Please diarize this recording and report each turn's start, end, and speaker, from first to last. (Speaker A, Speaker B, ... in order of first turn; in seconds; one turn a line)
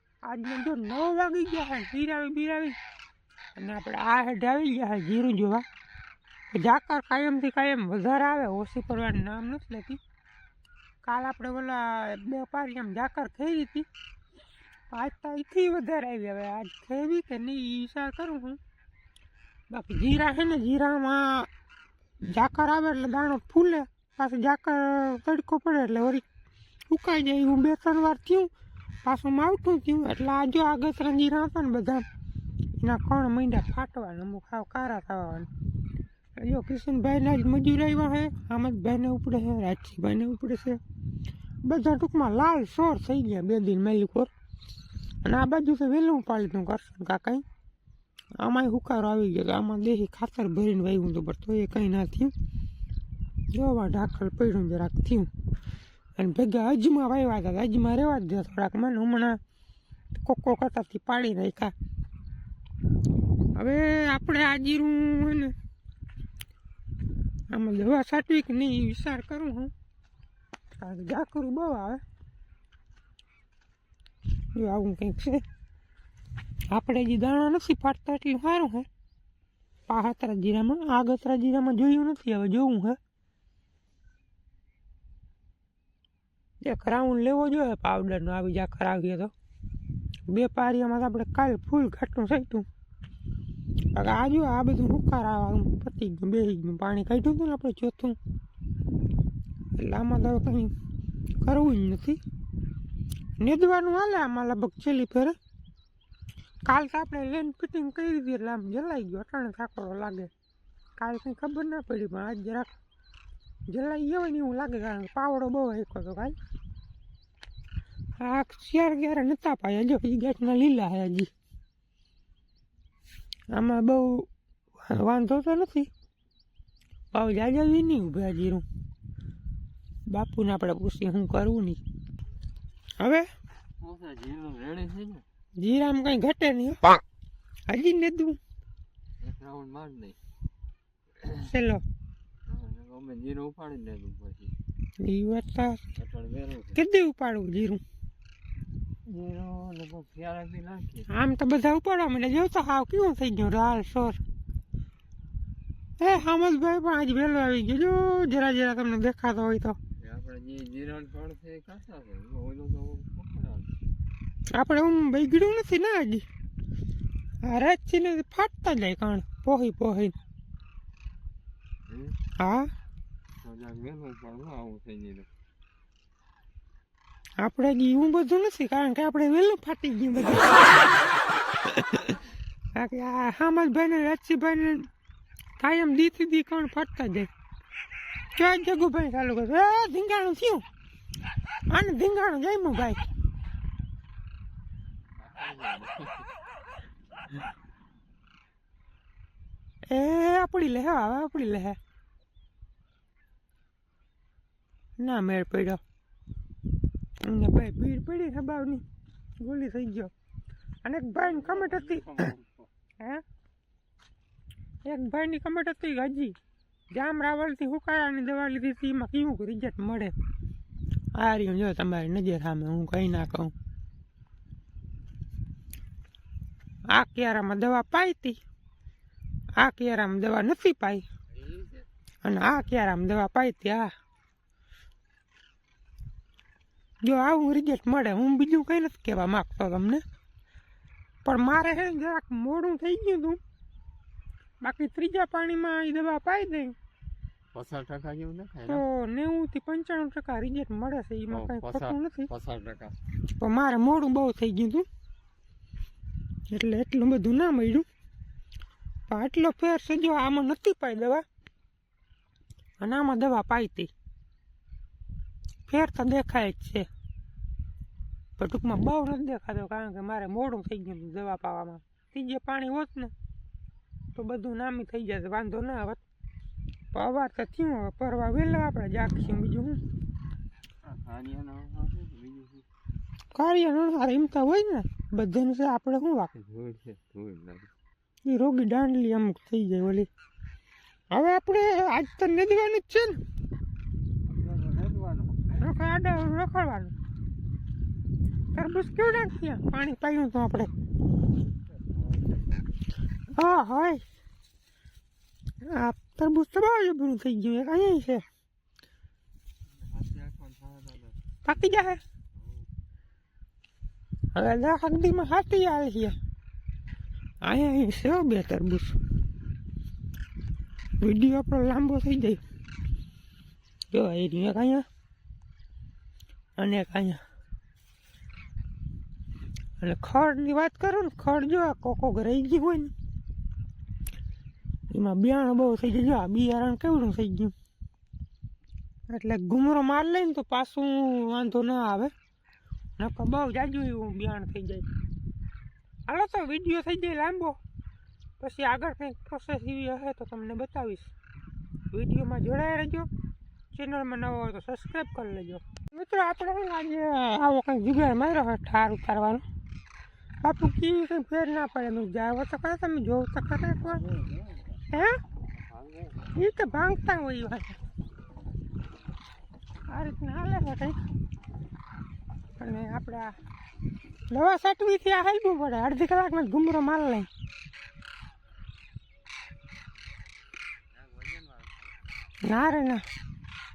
Speaker A: 0.3-2.8
Speaker A: 3.6-5.6
Speaker A: 6.5-10.0
Speaker A: 11.0-13.9
Speaker A: 14.9-18.6
Speaker A: 19.7-21.5
Speaker A: 22.2-26.2
Speaker A: 26.9-28.5
Speaker A: 29.1-32.0
Speaker A: 32.8-35.5
Speaker A: 36.4-40.8
Speaker A: 41.6-44.3
Speaker A: 45.2-47.4
Speaker A: 48.4-52.3
Speaker A: 53.5-55.3
Speaker A: 56.2-59.4
Speaker A: 60.1-61.7
Speaker A: 63.6-65.5
Speaker A: 67.5-69.7
Speaker A: 70.8-72.0
Speaker A: 74.5-75.4
Speaker A: 76.7-78.9
Speaker A: 79.9-83.0
Speaker A: 86.6-89.3
Speaker A: 90.3-92.7
Speaker A: 93.9-98.2
Speaker A: 99.8-100.7
Speaker A: 101.4-102.2
Speaker A: 103.4-105.3
Speaker A: 106.7-110.3
Speaker A: 111.0-112.7
Speaker A: 113.7-116.4
Speaker A: 118.2-121.3
Speaker A: 123.5-125.9
Speaker A: 127.1-128.7
Speaker A: 130.1-131.8
Speaker A: 133.0-133.3
Speaker B: 133.8-135.2
Speaker A: 135.6-137.0
Speaker A: 137.7-138.4
Speaker B: 139.2-140.2
Speaker A: 141.2-141.8
Speaker B: 142.5-144.5
Speaker A: 145.0-145.8
Speaker B: 146.0-146.8
Speaker A: 146.7-147.8
Speaker B: 149.1-151.1
Speaker A: 151.1-154.2
Speaker A: 156.0-159.8
Speaker B: 160.0-163.8
Speaker A: 164.5-166.2
Speaker A: 167.4-170.2
Speaker B: 171.9-172.2
Speaker A: 172.4-172.7
Speaker B: 173.4-175.3
Speaker A: 177.4-180.9
Speaker A: 181.7-182.2
Speaker A: 182.8-184.9
Speaker A: 185.6-187.3
Speaker A: 188.4-190.7
Speaker A: 191.7-193.1
Speaker B: 195.2-196.3
Speaker A: 199.9-201.8
Speaker A: 205.0-205.8
Speaker A: 207.2-208.8
Speaker A: 209.4-210.1
Speaker A: 210.8-212.3
Speaker A: 214.9-216.4
Speaker A: 216.9-220.1
Speaker A: 221.2-223.5
Speaker A: 226.9-228.4
Speaker A: 229.6-231.1
Speaker B: 231.4-231.8
Speaker A: 232.2-233.9
Speaker A: 237.0-240.0
Speaker A: 241.2-243.4
Speaker A: 244.6-246.7
Speaker B: 247.5-248.8
Speaker A: 248.6-252.3
Speaker B: 251.3-253.0
Speaker A: 253.4-254.9
Speaker A: 256.5-257.9
Speaker A: 259.1-261.2
Speaker A: 262.8-263.9
Speaker A: 265.7-266.9
Speaker A: 268.4-273.1
Speaker A: 274.2-276.0
Speaker A: 276.9-279.8
Speaker B: 280.8-282.7
Speaker A: 283.3-286.3
Speaker B: 286.4-287.7
Speaker A: 288.2-290.1
Speaker A: 291.1-293.2
Speaker B: 294.3-295.5
Speaker A: 295.5-296.9
Speaker A: 298.5-300.7
Speaker B: 302.0-302.4
Speaker A: 303.3-304.0
Speaker A: 305.6-308.2
Speaker B: 309.8-311.2
Speaker A: 311.4-312.0
Speaker A: 314.4-316.1
Speaker A: 317.4-319.0
Speaker A: 321.0-322.4
Speaker A: 323.9-324.8
Speaker A: 326.6-327.2
Speaker A: 329.8-332.9
Speaker A: 334.9-337.5
Speaker A: 339.1-342.1
Speaker A: 343.0-344.9
Speaker A: 346.1-347.6
Speaker A: 348.4-351.1
Speaker A: 351.9-353.1
Speaker A: 353.7-359.4
Speaker A: 360.4-364.2
Speaker A: 364.9-365.2
Speaker B: 365.8-366.1
Speaker A: 366.3-367.8
Speaker A: 369.9-371.0
Speaker A: 372.6-373.3
Speaker A: 374.3-377.3
Speaker B: 381.0-381.8
Speaker A: 382.4-383.0